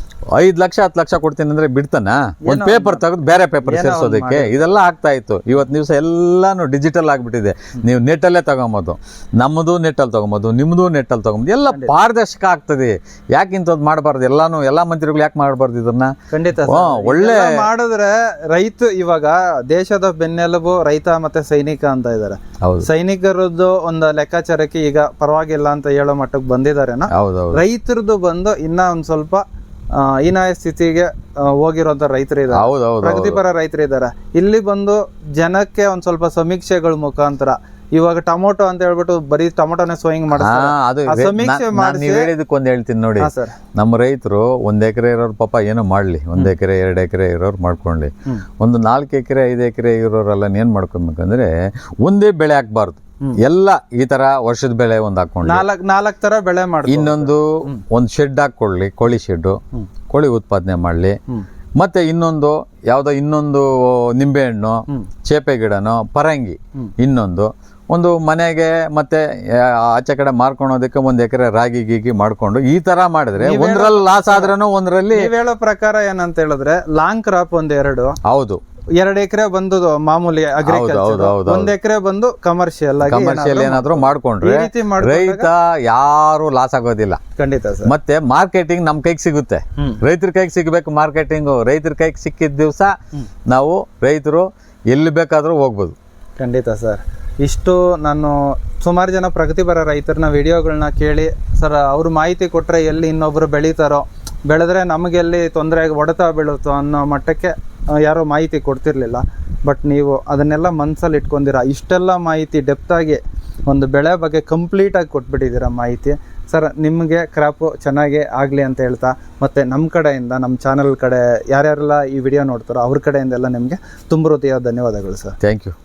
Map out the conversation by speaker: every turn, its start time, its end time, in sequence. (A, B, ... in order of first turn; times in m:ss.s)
0:00.3-0:17.6 A
0:02.4-0:03.0 B
0:03.6-0:04.6 B
0:16.3-0:29.4 B
0:22.6-0:22.9 A
0:27.1-0:27.6 A
0:29.9-0:42.3 B
0:32.5-0:33.4 A
0:40.3-0:51.5 A
0:43.2-0:43.6 B
0:52.0-0:55.7 A
0:55.4-0:57.8 B
0:56.9-1:01.2 A
1:01.8-1:15.3 A
1:13.4-1:14.5 B
1:15.1-1:18.2 B
1:18.2-1:18.6 A
1:19.0-1:25.5 B
1:20.6-1:21.7 A
1:23.0-1:27.2 A
1:27.4-1:27.9 B
1:27.8-1:32.9 A
1:33.5-1:36.0 A
1:36.4-2:05.4 B
2:05.4-2:05.8 A